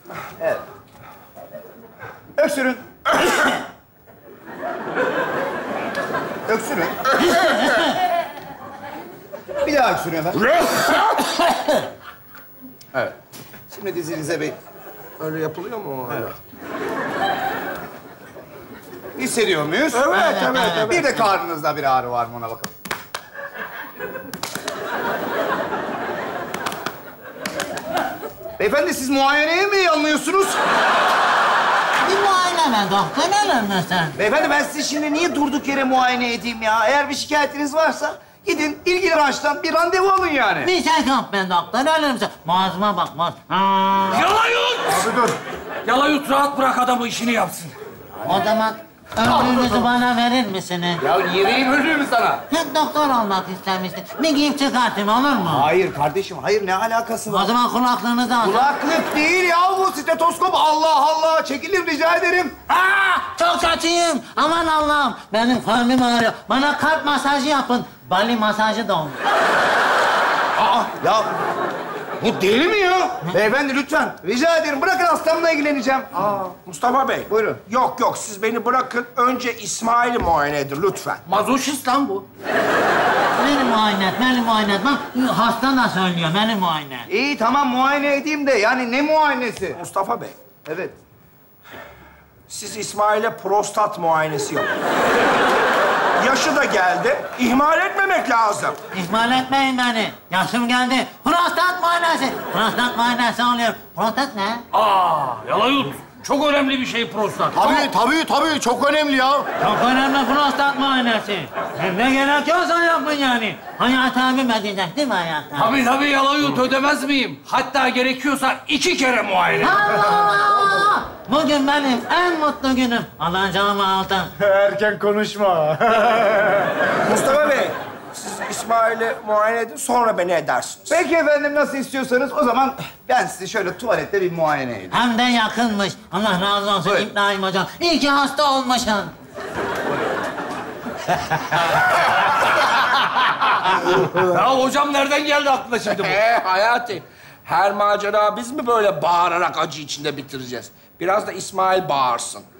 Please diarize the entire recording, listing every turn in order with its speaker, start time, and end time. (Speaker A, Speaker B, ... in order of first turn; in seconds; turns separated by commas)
Speaker A: 0.4-0.6, Speaker A: 2.4-2.8, Speaker A: 6.5-7.1, Speaker B: 7.2-7.9, Speaker A: 9.6-10.4, Speaker C: 10.3-11.2, Speaker B: 11.3-11.8, Speaker A: 13.7-14.6, Speaker C: 15.2-16.3, Speaker A: 19.1-22.7, Speaker C: 19.9-21.0, Speaker B: 20.1-21.3, Speaker A: 28.6-30.6, Speaker B: 32.0-34.1, Speaker A: 34.1-40.7, Speaker B: 40.6-44.3, Speaker D: 44.1-45.0, Speaker D: 45.8-47.7, Speaker B: 48.2-51.0, Speaker A: 51.0-52.4, Speaker B: 52.5-55.7, Speaker A: 55.5-57.5, Speaker B: 57.3-58.7, Speaker A: 58.4-62.5, Speaker B: 62.7-69.2, Speaker A: 70.9-71.3, Speaker A: 72.2-76.5, Speaker C: 76.6-81.2, Speaker A: 77.3-77.6, Speaker D: 81.2-82.2, Speaker B: 83.3-87.1, Speaker A: 87.1-89.8, Speaker C: 89.7-90.4, Speaker A: 90.6-90.9, Speaker C: 92.5-94.7, Speaker C: 96.2-98.8, Speaker B: 98.9-104.6, Speaker D: 104.7-107.9, Speaker E: 107.5-109.5, Speaker B: 109.6-115.8, Speaker D: 115.5-119.8, Speaker B: 119.6-124.3, Speaker E: 124.4-126.7, Speaker C: 127.0-131.0, Speaker A: 130.9-135.0, Speaker B: 134.9-139.1, Speaker A: 136.8-137.1, Speaker D: 143.7-146.2, Speaker C: 146.0-152.4